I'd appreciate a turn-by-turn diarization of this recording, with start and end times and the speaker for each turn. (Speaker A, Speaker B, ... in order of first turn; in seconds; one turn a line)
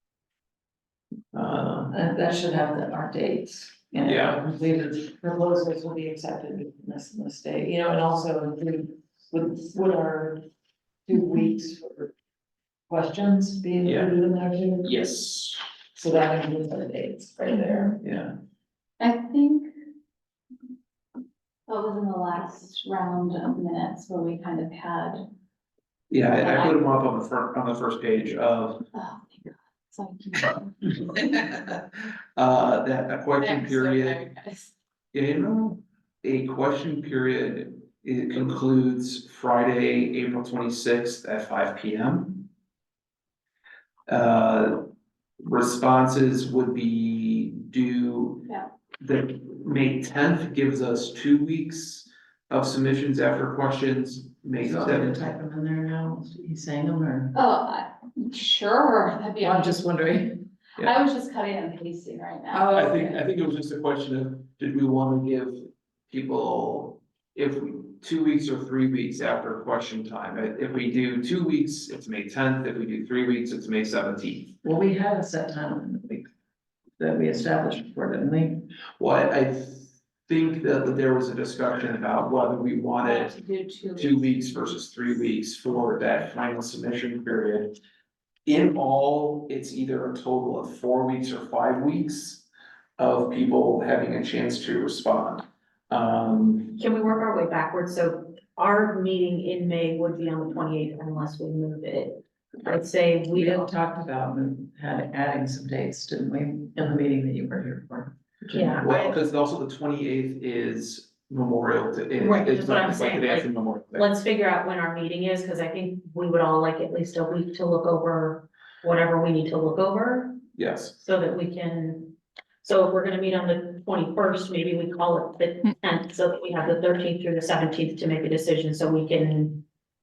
Speaker A: 1.3-1.9
Speaker B: 1.9-10.4
Speaker A: 4.0-4.4
Speaker B: 11.1-12.1
Speaker B: 12.9-15.1
Speaker A: 13.8-14.1
Speaker A: 14.8-15.6
Speaker B: 15.9-18.0
Speaker C: 17.5-17.9
Speaker A: 18.0-18.4
Speaker C: 19.0-19.7
Speaker C: 21.7-25.2
Speaker A: 26.1-28.8
Speaker C: 26.4-26.8
Speaker C: 28.9-31.4
Speaker A: 31.3-31.7
Speaker A: 32.4-34.2
Speaker C: 33.4-34.7
Speaker A: 35.1-42.5
Speaker A: 44.1-44.9
Speaker A: 45.4-48.5
Speaker A: 49.0-55.3
Speaker B: 54.6-57.4
Speaker C: 57.3-59.9
Speaker B: 59.4-60.4
Speaker C: 60.8-62.9
Speaker B: 62.5-63.2
Speaker A: 62.7-74.5
Speaker B: 74.6-76.3
Speaker B: 77.0-78.7
Speaker A: 79.0-83.3
Speaker C: 83.0-84.9
Speaker A: 84.0-87.8
Speaker A: 88.5-92.5
Speaker A: 93.0-96.8
Speaker D: 96.8-103.7
Speaker B: 103.3-108.8
Speaker D: 108.5-109.1
Speaker A: 108.8-114.1
Speaker D: 112.2-120.4
Speaker A: 120.5-120.9
Speaker D: 121.0-129.6